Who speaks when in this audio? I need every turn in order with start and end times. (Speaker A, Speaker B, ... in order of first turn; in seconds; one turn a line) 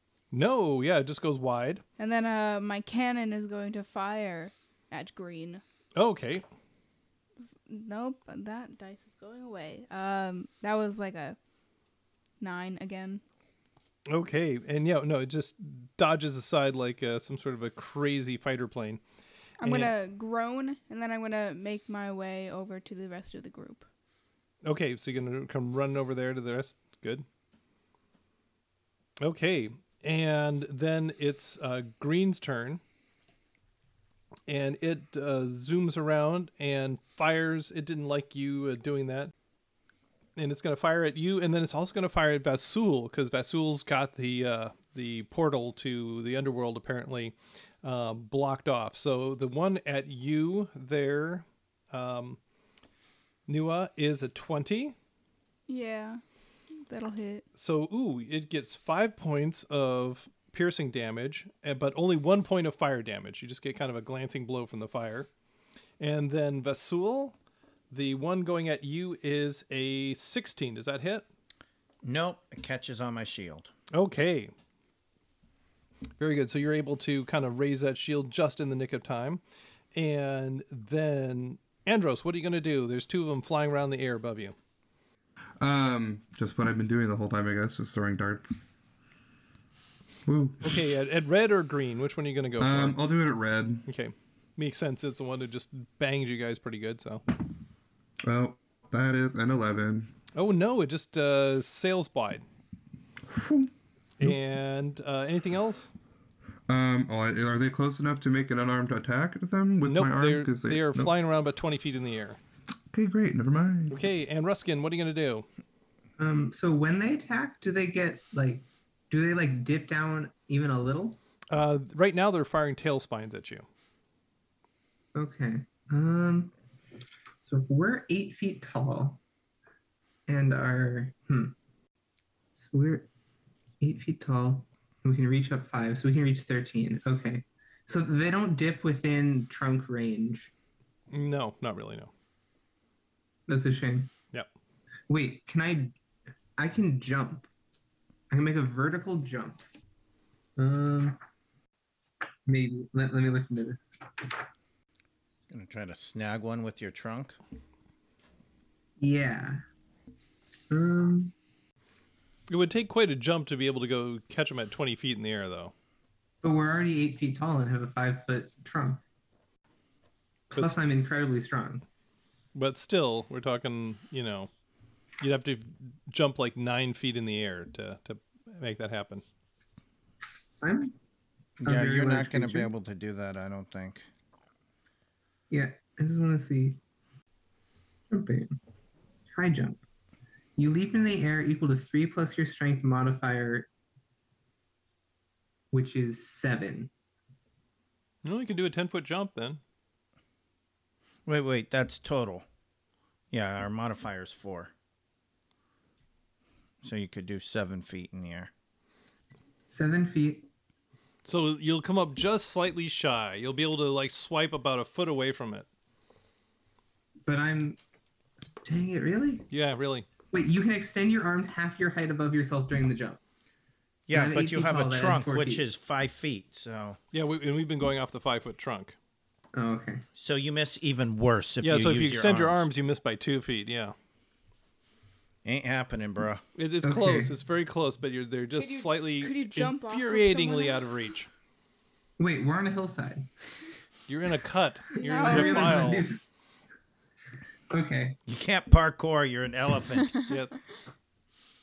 Speaker A: 0.3-1.8
Speaker B: 2.0-5.6
Speaker A: 5.9-6.4
Speaker B: 7.7-11.4
Speaker B: 12.4-13.2
Speaker A: 14.1-19.0
Speaker B: 19.6-23.9
Speaker A: 19.6-19.9
Speaker A: 24.6-27.2
Speaker A: 29.2-32.8
Speaker A: 34.5-39.3
Speaker A: 40.4-52.4
Speaker A: 53.5-54.9
Speaker B: 55.7-56.2
Speaker B: 56.7-57.4
Speaker A: 57.5-65.3
Speaker A: 66.0-67.3
Speaker A: 67.9-71.2
Speaker C: 72.0-73.7
Speaker A: 73.9-74.5
Speaker A: 76.2-79.4
Speaker A: 79.9-84.5
Speaker D: 85.6-88.6
Speaker D: 90.2-90.8
Speaker A: 90.6-93.0
Speaker D: 92.6-93.8
Speaker A: 93.9-97.2
Speaker D: 98.2-100.1
Speaker A: 100.3-102.4
Speaker D: 103.3-104.4
Speaker A: 104.2-105.9
Speaker D: 106.7-111.1
Speaker A: 109.8-112.4
Speaker D: 112.9-114.0
Speaker A: 113.9-115.5
Speaker E: 116.2-121.2
Speaker A: 121.5-123.7
Speaker E: 125.1-126.5
Speaker E: 127.4-129.2
Speaker E: 130.3-131.5
Speaker E: 132.6-133.1
Speaker E: 133.8-140.5
Speaker A: 141.1-142.1
Speaker E: 143.5-144.1
Speaker E: 145.1-145.9
Speaker E: 146.6-147.5
Speaker E: 148.3-149.6
Speaker E: 150.6-151.2
Speaker E: 152.4-154.4
Speaker C: 155.5-157.4
Speaker E: 159.0-159.6
Speaker E: 160.7-161.3
Speaker A: 162.5-165.7
Speaker E: 166.4-169.0
Speaker A: 170.5-170.8
Speaker E: 170.5-171.8
Speaker A: 172.5-174.5
Speaker A: 175.2-179.2
Speaker E: 180.6-180.9
Speaker E: 181.6-182.7
Speaker C: 181.6-184.1
Speaker E: 185.5-186.8
Speaker E: 188.1-188.6
Speaker E: 189.3-189.8
Speaker E: 190.6-193.7
Speaker E: 195.7-196.9
Speaker A: 198.2-199.6
Speaker C: 201.2-202.4
Speaker C: 203.3-204.7
Speaker C: 206.8-208.5
Speaker E: 209.7-210.5
Speaker A: 211.2-215.7
Speaker E: 217.3-217.8
Speaker E: 218.6-219.5
Speaker A: 219.5-220.1
Speaker E: 220.3-223.2
Speaker C: 224.1-227.0
Speaker E: 224.1-225.6
Speaker A: 227.1-228.9
Speaker E: 229.5-230.0
Speaker C: 230.2-232.7
Speaker A: 231.6-233.9
Speaker C: 235.4-236.4
Speaker A: 236.6-241.3
Speaker E: 236.8-237.3
Speaker B: 238.6-241.1
Speaker E: 242.2-243.3
Speaker A: 244.1-246.1
Speaker B: 244.9-246.0
Speaker E: 245.1-246.2
Speaker E: 247.7-248.2
Speaker C: 248.3-250.2
Speaker A: 250.3-250.6